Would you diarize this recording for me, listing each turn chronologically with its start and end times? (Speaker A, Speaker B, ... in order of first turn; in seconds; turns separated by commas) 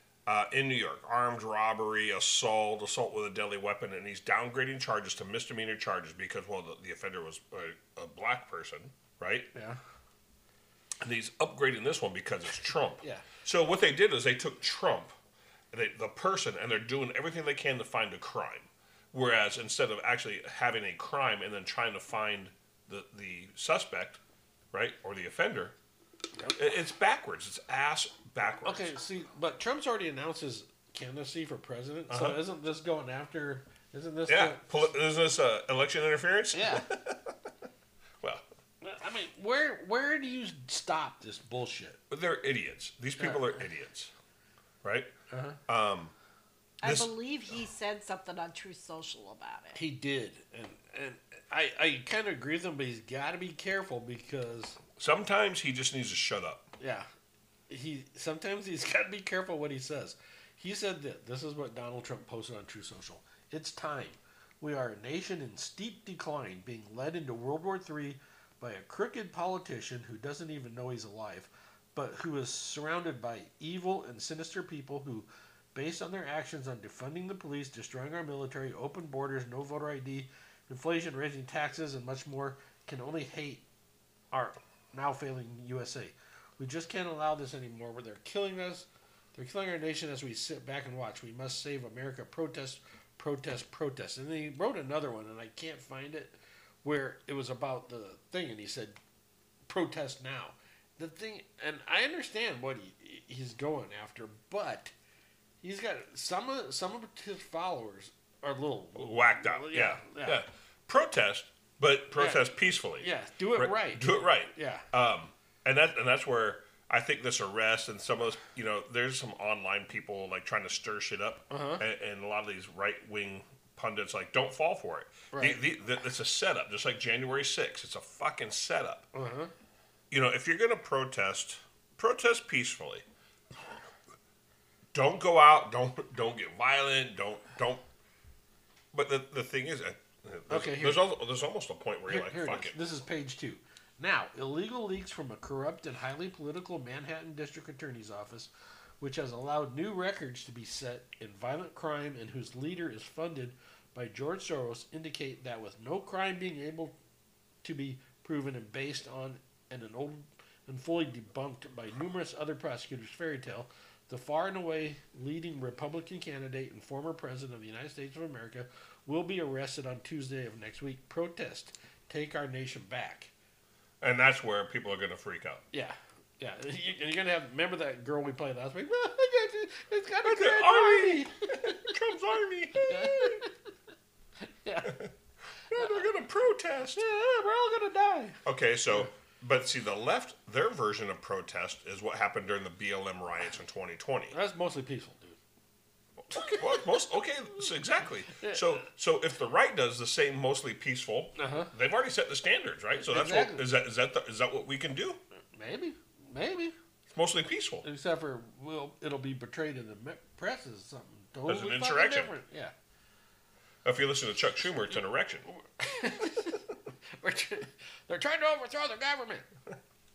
Speaker A: 0.2-9.5, Speaker B: 9.5-9.8, Speaker A: 11.0-15.2, Speaker A: 15.7-24.2, Speaker A: 24.7-25.7, Speaker A: 26.5-28.9, Speaker B: 28.6-34.6, Speaker A: 32.1-32.4, Speaker A: 34.3-37.3, Speaker B: 36.5-36.9, Speaker B: 38.8-42.0, Speaker A: 42.1-44.1, Speaker B: 43.2-43.5, Speaker A: 44.8-45.1, Speaker B: 45.3-45.6, Speaker A: 45.7-46.1, Speaker C: 46.8-49.8, Speaker A: 46.8-47.1, Speaker B: 49.7-54.8, Speaker A: 55.0-56.7, Speaker B: 56.8-57.1, Speaker B: 57.7-83.6, Speaker B: 84.3-99.0, Speaker B: 99.7-104.9, Speaker B: 105.6-110.4, Speaker A: 109.0-129.1, Speaker B: 112.1-112.5, Speaker B: 113.0-114.9, Speaker B: 121.5-121.8, Speaker B: 125.3-125.6, Speaker B: 129.1-129.5, Speaker A: 130.1-133.0, Speaker A: 134.9-137.8, Speaker A: 138.9-142.8, Speaker B: 140.5-141.1, Speaker B: 142.1-148.5, Speaker B: 149.0-156.9, Speaker B: 157.6-173.3, Speaker A: 174.0-175.6, Speaker B: 175.7-181.9, Speaker A: 180.2-183.4, Speaker B: 182.8-183.5, Speaker B: 184.4-185.1, Speaker A: 185.7-187.0, Speaker B: 186.9-188.4, Speaker A: 188.4-194.4, Speaker B: 194.3-195.4, Speaker A: 196.3-205.2, Speaker B: 198.3-198.9, Speaker B: 201.3-201.7, Speaker B: 203.1-203.7, Speaker B: 205.5-206.7, Speaker A: 207.1-207.8, Speaker B: 207.8-212.7, Speaker A: 211.5-212.3, Speaker A: 213.8-215.5, Speaker B: 215.5-219.4